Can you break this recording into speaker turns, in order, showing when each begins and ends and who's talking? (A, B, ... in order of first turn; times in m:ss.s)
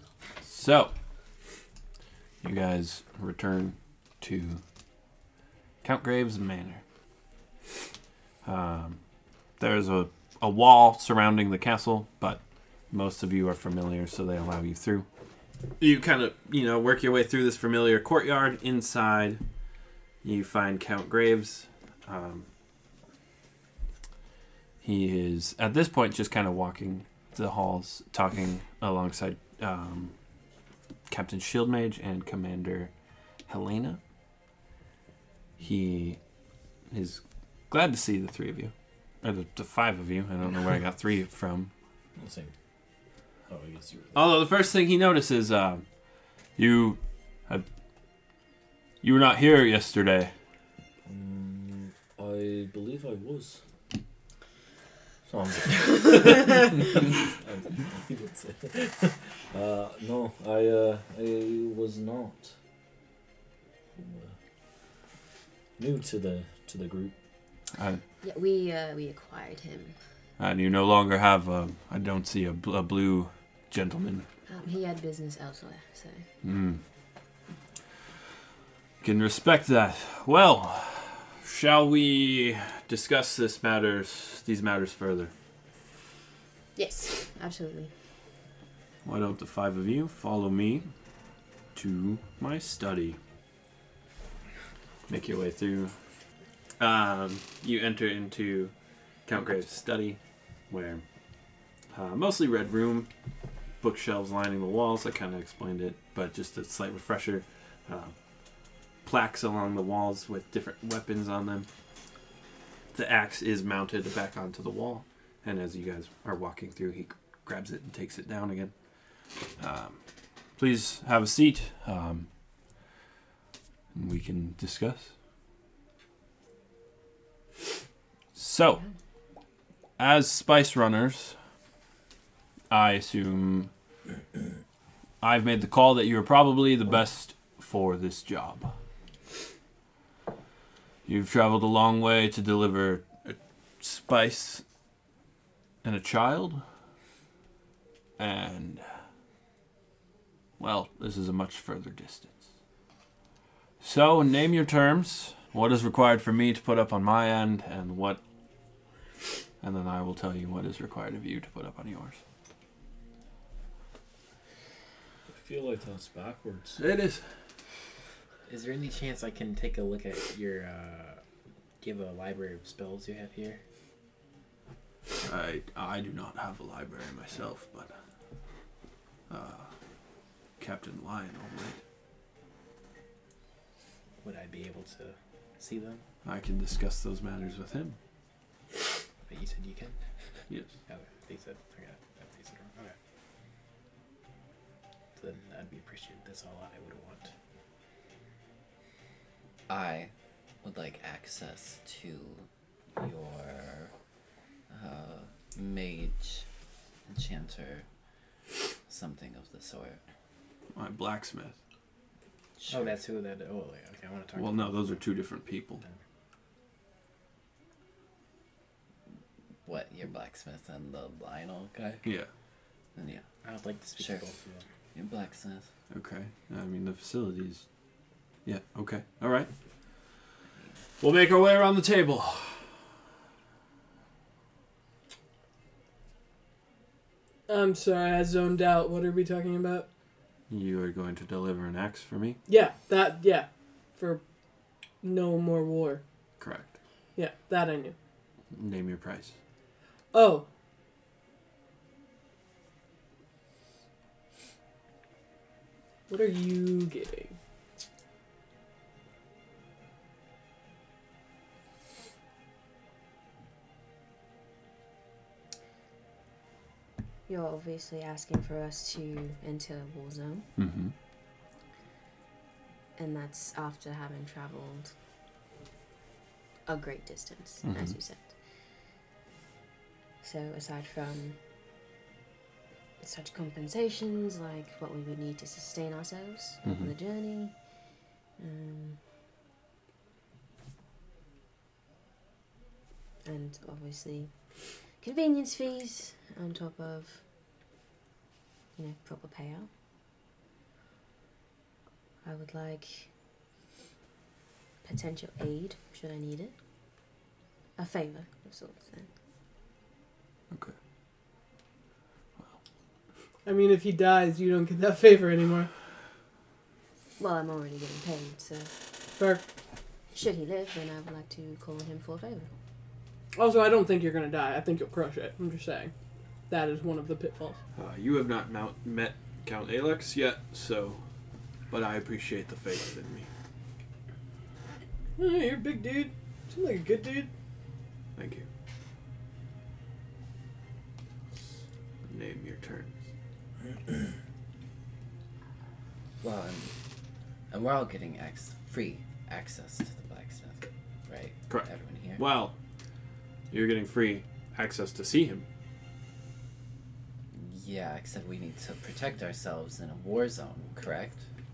0:00.4-0:00.9 A
0:02.4-0:04.6 A
0:05.8-0:06.8 A
0:08.4-0:09.0 A
0:09.6-0:15.0 A
0:15.8-0:19.4 A
0:20.2-0:22.5 A
0:24.8-0:30.1 A
0:31.1-0:32.9 A
0:33.5-0:34.0 A
0:35.6-0:36.2 A
0:36.9-0:41.7 A
0:42.2-0:42.5 B
0:43.5-0:44.3 B
0:44.1-0:45.8 A
0:46.6-0:47.6 A
0:49.0-0:50.3 A
0:51.0-0:53.6 B
0:55.2-1:02.5 B
1:04.0-1:04.3 B
1:05.8-1:07.1 B
1:07.7-1:08.0 A
1:08.2-1:09.9 C
1:10.4-1:14.2 A
1:14.5-1:16.2 C
1:16.4-1:16.8 A
1:19.0-1:25.3 A
1:26.8-1:27.9 C
1:29.0-1:30.9 A
1:31.7-1:33.2 A
1:35.1-1:35.9 A
1:36.8-1:38.7 A
1:39.2-1:40.2 A
1:40.7-1:41.0 A
1:41.9-1:43.1 A
1:43.8-1:48.1 A
1:49.0-1:51.7 A
1:52.9-1:58.7 A
1:59.6-2:00.0 A
2:00.6-2:02.3 A
2:03.9-2:05.1 A
2:08.4-2:08.8 A
2:10.0-2:11.4 A
2:12.7-2:13.7 A
2:15.2-2:18.7 A
2:21.0-2:24.6 A
2:25.8-2:26.6 A
2:28.2-2:28.8 A
2:30.6-2:32.4 A
2:33.8-2:38.2 A
2:39.6-2:42.2 A
2:45.3-2:46.8 B
2:46.8-2:47.2 A
2:48.5-2:51.2 D
2:51.8-2:53.6 D
2:55.2-2:57.9 A
2:59.3-2:59.7 A
3:00.6-3:01.8 A
3:04.2-3:06.0 D
3:06.2-3:08.0 A
3:09.2-3:10.0 D
3:10.9-3:13.0 D
3:15.2-3:17.3 D
3:19.7-3:20.1 E
3:20.6-3:23.9 E
3:24.7-3:26.4 E
3:27.1-3:27.8 E
3:28.9-3:30.0 E
3:30.7-3:31.5 A
3:32.6-3:33.0 E
3:32.7-3:35.0 D
3:34.3-3:35.8 A
3:39.6-3:42.0 E
3:42.0-3:42.3 A
3:43.0-3:43.3 E
3:43.3-3:44.6 D
3:43.9-3:44.2 E
3:44.9-3:45.7 E
3:45.9-3:47.6 A
3:48.4-3:49.5 A
3:51.0-3:52.6 A
3:57.5-3:59.8 F
4:00.5-4:02.4 A
4:02.5-4:04.2 F
4:05.0-4:06.0 F
4:06.4-4:06.8 A
4:07.2-4:07.9 F
4:08.5-4:09.3 A
4:10.1-4:10.4 F
4:16.1-4:17.4 F
4:27.3-4:30.4 C
4:30.6-4:30.9 A
4:33.0-4:34.9 C
4:36.7-4:38.2 C
4:37.6-4:38.0 A
4:40.2-4:41.4 C
4:43.0-4:47.5 C
4:46.6-4:46.9 A
4:48.4-4:49.0 C
4:53.2-4:54.3 C
4:55.0-4:57.2 C
4:58.8-4:59.7 C
5:02.2-5:03.1 C
5:04.8-5:06.5 C
5:07.8-5:09.1 C
5:13.4-5:15.7 F
5:17.2-5:18.7 C
5:20.1-5:22.5 C
5:23.4-5:25.9 F
5:26.5-5:27.6 F
5:27.8-5:31.0 A
5:31.7-5:33.3 A
5:35.2-5:37.3 F
5:38.2-5:38.5 A
5:42.1-5:42.9 A
5:46.2-5:46.7 E
5:47.5-5:52.2 E
5:51.5-5:52.6 A
5:53.5-5:55.4 A
5:57.3-6:01.2 E